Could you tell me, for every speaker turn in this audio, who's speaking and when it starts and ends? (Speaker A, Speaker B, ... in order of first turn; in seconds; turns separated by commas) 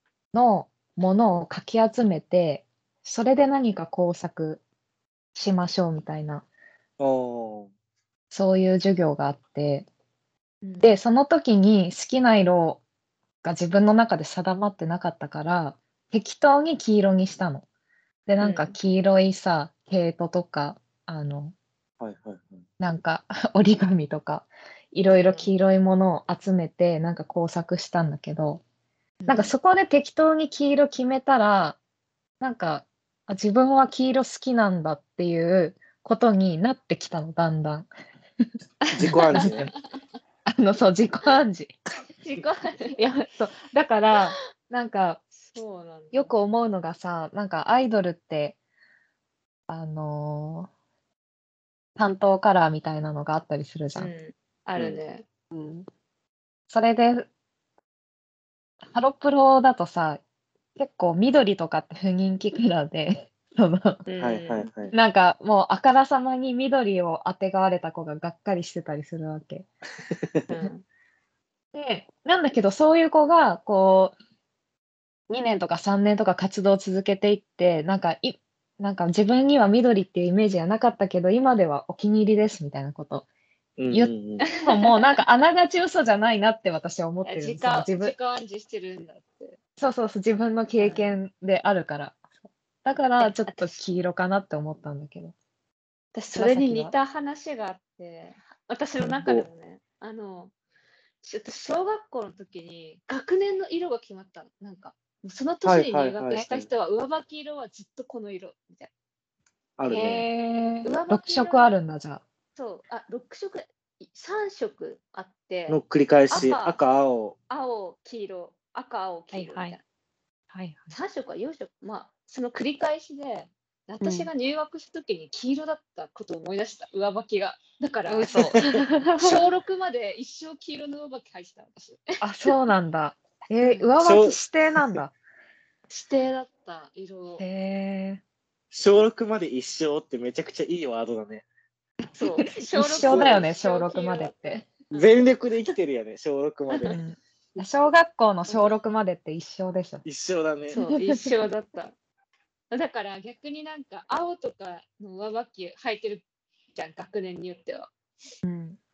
Speaker A: 0.3-4.6, Speaker A: 5.3-6.4, Speaker B: 7.0-7.7, Speaker A: 8.3-9.9, Speaker C: 10.6-10.9, Speaker A: 10.8-12.8, Speaker A: 13.4-17.6, Speaker A: 18.3-21.5, Speaker C: 18.4-18.7, Speaker B: 22.0-22.6, Speaker A: 22.8-28.6, Speaker C: 25.1-25.5, Speaker C: 29.2-29.5, Speaker A: 29.3-31.8, Speaker A: 32.4-37.9, Speaker C: 38.8-39.8, Speaker B: 38.9-39.7, Speaker A: 39.0-39.5, Speaker A: 40.5-41.7, Speaker C: 42.2-43.0, Speaker A: 43.0-45.2, Speaker C: 45.4-46.3, Speaker A: 46.1-48.6, Speaker A: 49.7-50.7, Speaker A: 52.0-54.1, Speaker C: 53.9-55.2, Speaker A: 55.5-55.9, Speaker A: 56.7-57.3, Speaker A: 58.9-60.2, Speaker A: 60.8-64.0, Speaker C: 64.1-64.7, Speaker B: 64.2-64.9, Speaker A: 64.9-69.7, Speaker C: 70.5-70.8, Speaker A: 71.7-74.2, Speaker A: 75.3-83.3, Speaker B: 83.8-84.5, Speaker A: 83.9-88.1, Speaker C: 84.4-85.2, Speaker C: 87.2-89.6, Speaker A: 89.8-92.2, Speaker C: 90.7-91.1, Speaker A: 92.8-95.3, Speaker C: 93.2-93.9, Speaker C: 96.1-100.5, Speaker A: 96.3-96.9, Speaker B: 99.0-99.5, Speaker C: 101.2-108.9, Speaker B: 105.6-106.7, Speaker B: 109.8-110.3, Speaker A: 109.9-112.2, Speaker C: 110.8-111.7, Speaker C: 112.5-115.8, Speaker B: 115.7-117.3, Speaker C: 116.3-116.8, Speaker C: 117.5-119.8, Speaker A: 119.3-119.8, Speaker A: 120.5-121.0, Speaker C: 120.9-128.5, Speaker A: 124.0-124.3, Speaker A: 128.1-129.4, Speaker C: 129.1-132.5, Speaker A: 132.2-135.1, Speaker C: 133.6-133.9, Speaker B: 134.0-135.0, Speaker C: 135.9-137.4, Speaker A: 137.4-138.2, Speaker B: 138.7-141.4, Speaker C: 142.2-145.7, Speaker A: 142.2-144.7, Speaker B: 143.0-143.5, Speaker B: 144.9-147.0, Speaker C: 146.7-147.0, Speaker A: 146.8-150.0, Speaker C: 148.5-148.8, Speaker B: 150.0-150.8, Speaker C: 150.7-151.9, Speaker A: 150.8-151.3, Speaker C: 152.7-157.9, Speaker A: 158.4-158.8